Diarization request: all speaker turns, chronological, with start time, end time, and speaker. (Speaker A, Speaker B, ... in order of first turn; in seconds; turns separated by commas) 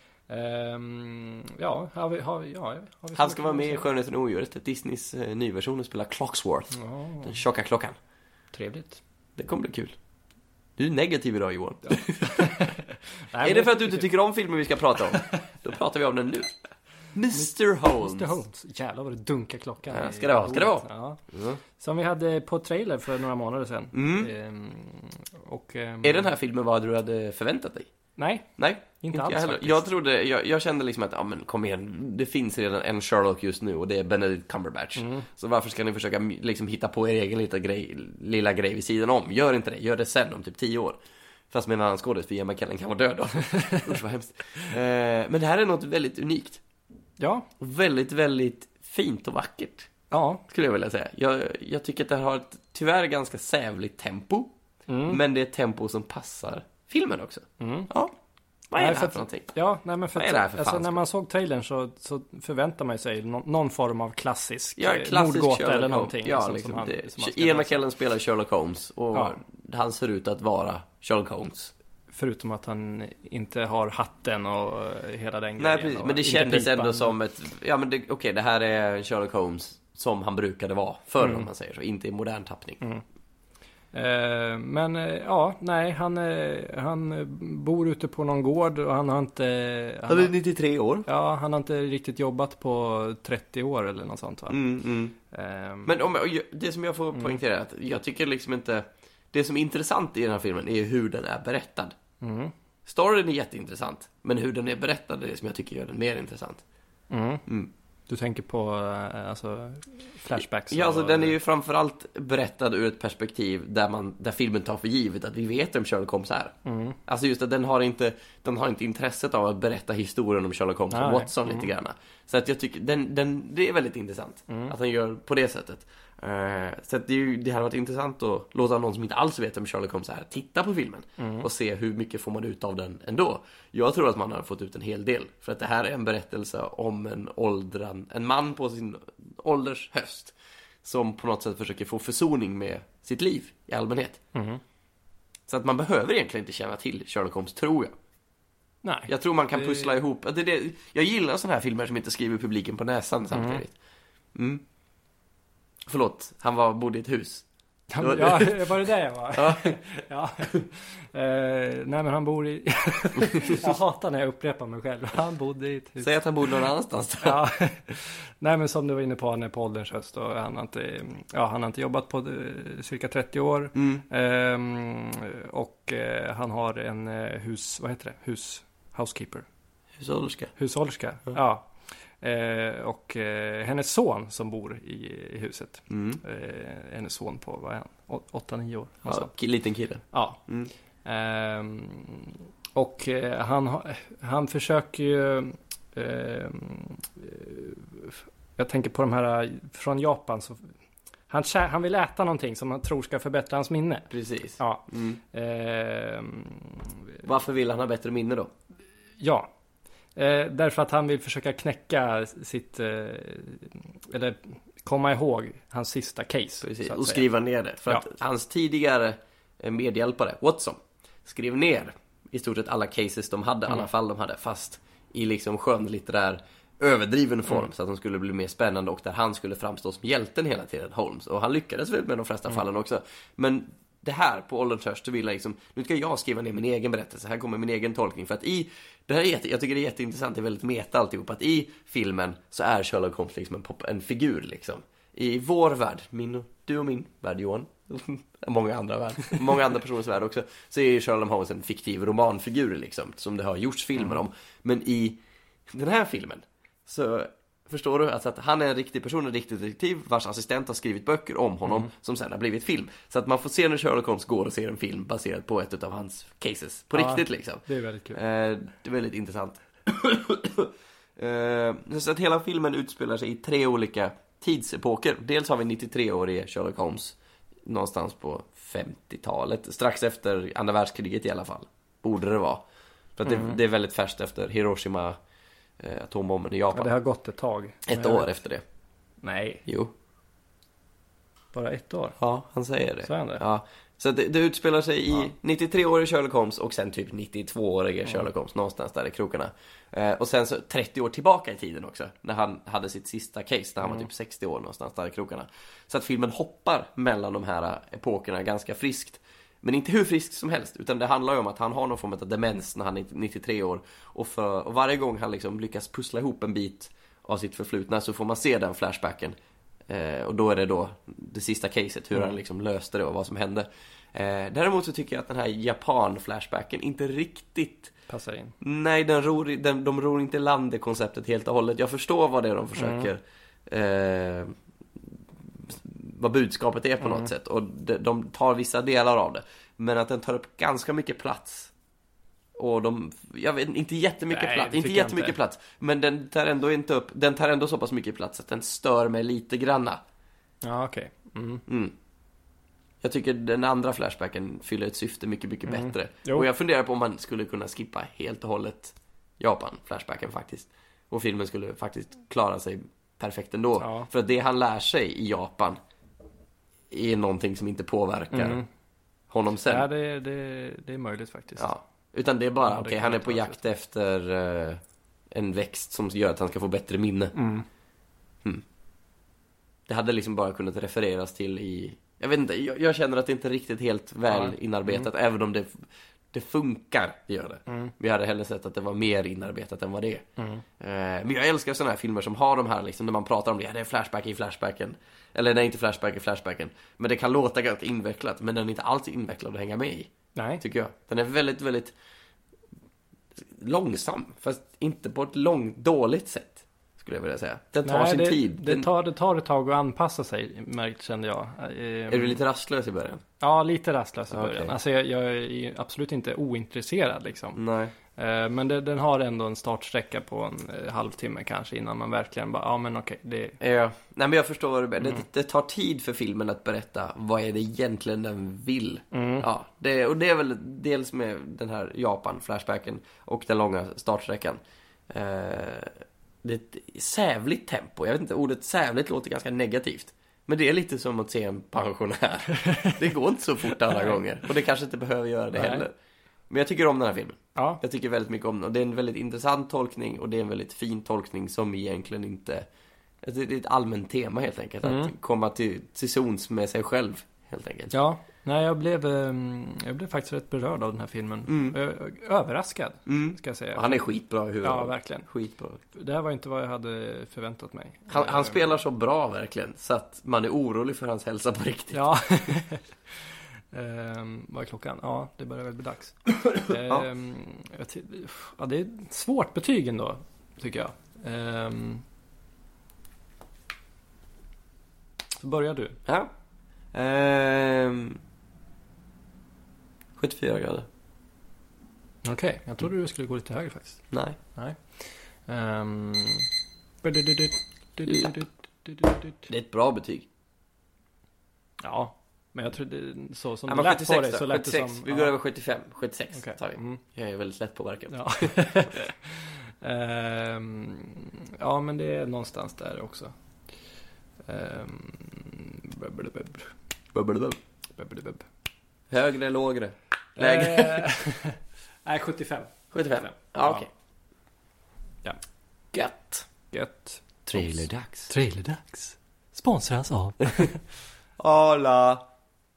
Speaker A: 0.3-3.9, Speaker B: 3.1-8.0, Speaker A: 6.7-7.4, Speaker A: 8.5-9.0, Speaker B: 9.4-10.0, Speaker B: 10.8-12.7, Speaker A: 11.9-14.1, Speaker B: 13.4-16.5, Speaker B: 17.1-18.4, Speaker A: 17.3-21.2, Speaker B: 19.9-21.6, Speaker A: 21.8-26.3, Speaker B: 23.9-24.3, Speaker B: 26.0-27.9, Speaker A: 28.2-29.8, Speaker B: 28.6-41.0, Speaker A: 35.0-35.3, Speaker B: 41.5-46.6, Speaker A: 43.5-44.0, Speaker A: 47.2-47.5, Speaker B: 47.6-49.9, Speaker A: 50.1-50.4, Speaker B: 50.5-54.5, Speaker A: 54.9-55.2, Speaker B: 55.1-58.1, Speaker A: 57.6-57.9, Speaker B: 58.7-59.5, Speaker A: 58.8-67.8, Speaker B: 60.1-61.0, Speaker B: 64.8-71.7, Speaker A: 72.1-77.2, Speaker B: 75.6-82.8, Speaker A: 81.2-81.5, Speaker A: 83.9-90.3, Speaker B: 90.1-91.1, Speaker A: 91.1-94.6, Speaker B: 94.5-95.2, Speaker A: 95.3-96.0, Speaker B: 95.9-102.0, Speaker A: 97.2-97.4, Speaker A: 102.2-102.5, Speaker B: 102.9-106.6, Speaker A: 107.1-107.4, Speaker A: 108.1-111.3, Speaker B: 110.4-116.5, Speaker A: 116.7-117.0, Speaker B: 117.1-144.2, Speaker A: 120.9-121.7, Speaker A: 124.5-124.7, Speaker A: 131.2-131.5, Speaker A: 144.3-144.6, Speaker B: 145.5-147.9, Speaker A: 148.8-150.0, Speaker B: 149.1-153.8, Speaker A: 153.3-153.6, Speaker B: 154.3-154.6, Speaker B: 155.9-157.5, Speaker A: 157.9-166.1, Speaker B: 158.0-158.8, Speaker B: 159.3-159.8, Speaker B: 166.0-167.4, Speaker A: 167.2-179.4, Speaker B: 173.8-174.0, Speaker B: 180.0-180.5, Speaker A: 180.6-189.3, Speaker B: 185.9-186.2, Speaker B: 189.1-190.7, Speaker A: 190.1-190.4, Speaker A: 191.0-200.7, Speaker A: 201.3-207.3, Speaker B: 204.1-205.2, Speaker B: 207.2-208.5, Speaker A: 209.2-209.5, Speaker A: 210.2-217.3, Speaker B: 216.6-282.6, Speaker A: 266.9-268.2, Speaker B: 283.2-285.2, Speaker A: 283.2-283.6, Speaker B: 285.8-286.9, Speaker A: 286.7-288.3, Speaker B: 287.9-288.6, Speaker A: 289.2-289.6, Speaker B: 289.7-289.9, Speaker A: 291.5-292.2, Speaker B: 292.2-319.4, Speaker A: 293.0-293.4, Speaker B: 319.9-327.9, Speaker A: 328.1-328.6, Speaker B: 328.6-334.6, Speaker A: 332.8-333.1, Speaker B: 335.6-341.7, Speaker A: 337.0-337.3, Speaker B: 342.6-350.0, Speaker A: 344.3-345.4, Speaker A: 350.6-351.6, Speaker B: 351.7-351.9, Speaker B: 353.0-365.8, Speaker A: 355.7-356.5, Speaker A: 363.8-364.1, Speaker B: 366.9-368.6, Speaker A: 368.3-368.7, Speaker B: 369.3-369.9, Speaker A: 369.7-371.7, Speaker B: 371.6-377.4, Speaker A: 372.7-373.6, Speaker A: 377.3-377.7, Speaker B: 379.9-390.3, Speaker A: 384.3-385.1, Speaker A: 387.7-387.9, Speaker A: 390.4-390.6, Speaker B: 390.8-401.9, Speaker A: 400.4-400.6, Speaker B: 403.4-408.9, Speaker A: 407.8-412.4, Speaker B: 412.1-413.2, Speaker A: 413.4-417.6, Speaker B: 414.3-414.8, Speaker B: 417.6-417.9, Speaker A: 418.1-423.6, Speaker B: 423.6-445.9, Speaker A: 429.1-429.5, Speaker A: 442.5-443.0, Speaker A: 443.8-444.2, Speaker A: 445.6-445.9, Speaker B: 446.5-452.7, Speaker A: 447.6-447.8, Speaker B: 453.2-457.9, Speaker A: 454.8-455.1, Speaker A: 457.9-464.0, Speaker B: 461.5-461.8, Speaker B: 463.1-465.8, Speaker A: 464.6-465.3, Speaker A: 465.9-468.6, Speaker B: 468.1-472.0, Speaker A: 471.9-472.9, Speaker A: 473.7-482.1, Speaker B: 476.5-477.1, Speaker A: 485.4-486.0, Speaker B: 486.9-488.2, Speaker B: 490.2-490.9, Speaker A: 492.2-496.5, Speaker B: 494.1-494.4, Speaker A: 497.0-499.5, Speaker B: 499.5-500.3, Speaker A: 501.8-505.3, Speaker B: 503.7-509.0, Speaker A: 506.3-507.0, Speaker A: 508.1-513.3, Speaker A: 514.5-516.7, Speaker B: 517.1-517.6, Speaker A: 518.0-518.5, Speaker B: 519.1-521.1, Speaker A: 520.4-523.8, Speaker B: 522.9-523.9, Speaker B: 525.9-526.5, Speaker A: 526.7-530.9, Speaker B: 527.5-528.3, Speaker B: 531.4-532.3